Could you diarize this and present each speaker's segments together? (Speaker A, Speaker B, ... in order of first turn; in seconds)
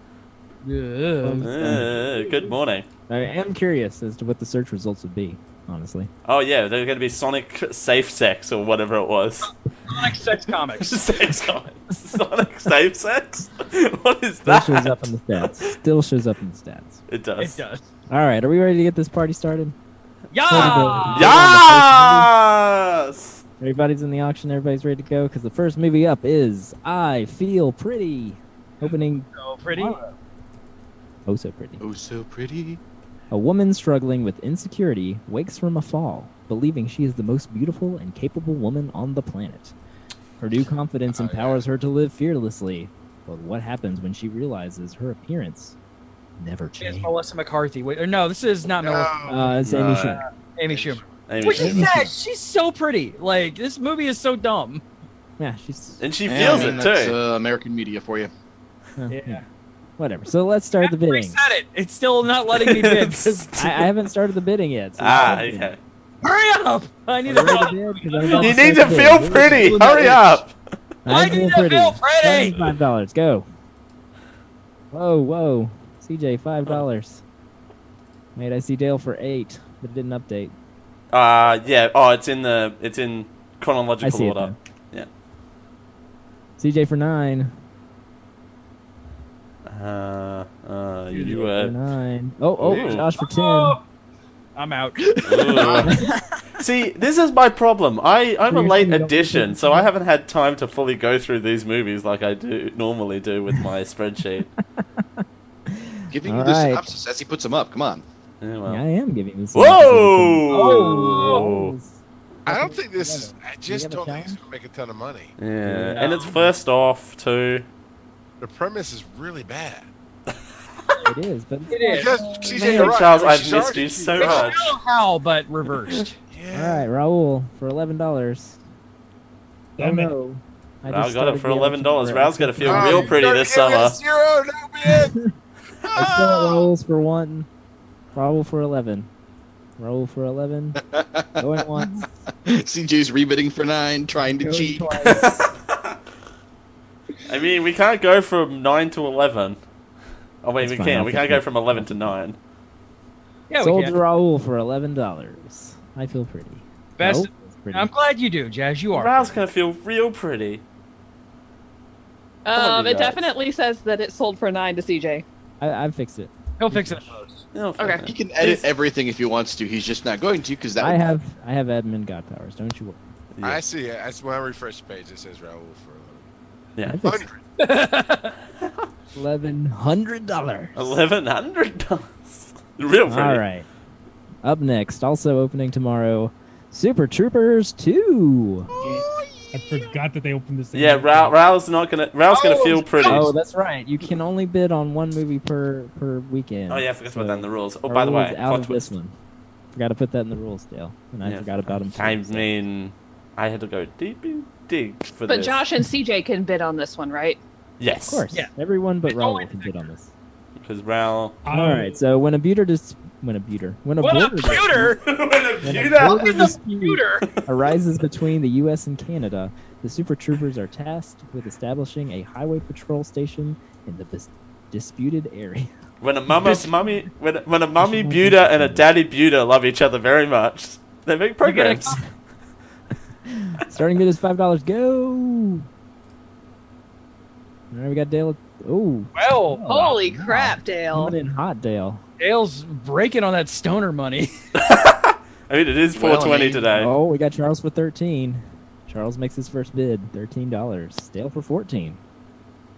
Speaker A: 0.6-2.5, 9.9-11.0, 17.4-17.9, 20.3-21.5, 28.8-30.1, 46.8-49.4, 50.1-54.8, 59.1-59.5, 60.8-63.5, 66.2-69.1, 71.1-72.7, 91.1-91.5, 93.0-93.8, 94.5-96.1, 110.5-111.5, 115.7-116.4, 121.7-123.0, 124.2-126.2, 144.4-145.2, 153.5-153.9, 157.0-159.4, 166.6-167.4, 177.6-178.3, 192.3-193.2, 209.0-209.8, 214.0-215.0, 215.9-217.3, 226.3-226.8, 231.4-232.0, 239.1-239.9, 242.2-244.3
Speaker B: 1.2-1.9, 3.1-6.1, 14.4-17.0, 18.1-19.7, 20.5-22.3, 23.6-30.0, 31.2-31.8, 33.3-39.7, 40.4-45.8, 46.4-47.1, 49.3-50.2, 51.6-52.1, 55.4-56.0, 59.0-59.4, 60.0-61.4, 63.5-65.7, 67.2-69.9, 71.0-73.5, 74.9-77.2, 78.3-80.5, 84.0-84.5, 86.6-87.5, 91.2-93.8, 95.8-96.2, 98.5-99.9, 105.0-106.9, 108.7-114.4, 121.0-123.0, 126.5-128.6, 129.8-133.2, 134.9-135.3, 135.9-137.5, 138.1-139.1, 139.8-140.8, 141.3-142.1, 144.4-145.4, 150.6-152.2, 153.6-157.9, 165.6-167.2, 170.8-173.0, 176.8-177.2, 179.1-181.0, 183.1-183.7, 184.4-188.7, 193.0-199.1, 199.7-202.5, 208.1-210.1, 211.5-215.0, 215.6-225.7, 227.8-228.8, 233.3-235.7, 237.7-242.0, 246.7-252.0
Speaker C: 1.4-2.9, 6.2-9.9, 10.8-15.6, 17.1-17.6, 20.5-23.4, 49.6-50.2, 51.3-52.0, 56.0-57.1, 62.5-63.9, 65.0-65.8, 68.3-70.5, 81.1-85.1, 89.7-91.7, 92.6-93.1, 95.2-96.0, 96.6-104.5, 108.4-108.8, 109.5-111.7, 115.4-117.7, 122.6-124.7, 130.9-134.0, 145.0-146.0, 147.3-149.6, 150.4-152.4, 158.9-160.6, 162.5-163.2, 167.5-168.6, 173.3-173.6, 176.8-177.0, 180.7-183.4, 190.7-193.3, 196.7-198.9, 201.2-205.6, 207.8-208.2, 210.6-211.4, 215.0-216.5, 226.0-232.0, 244.6-246.9
Speaker D: 31.8-32.8, 56.2-58.3, 69.7-70.1, 106.1-108.0, 140.9-141.6, 142.4-144.9, 168.0-171.0, 245.9-246.7
Speaker E: 41.1-41.6, 48.7-49.4, 50.7-51.6, 112.5-115.3, 118.4-119.9, 121.9-124.6, 126.3-126.8, 132.6-135.2, 135.9-136.7, 173.4-176.3, 177.0-177.4
Speaker F: 129.8-130.1, 189.5-191.3, 211.4-212.0
Speaker G: 162.4-165.2, 167.8-168.1, 205.3-207.4, 239.7-241.1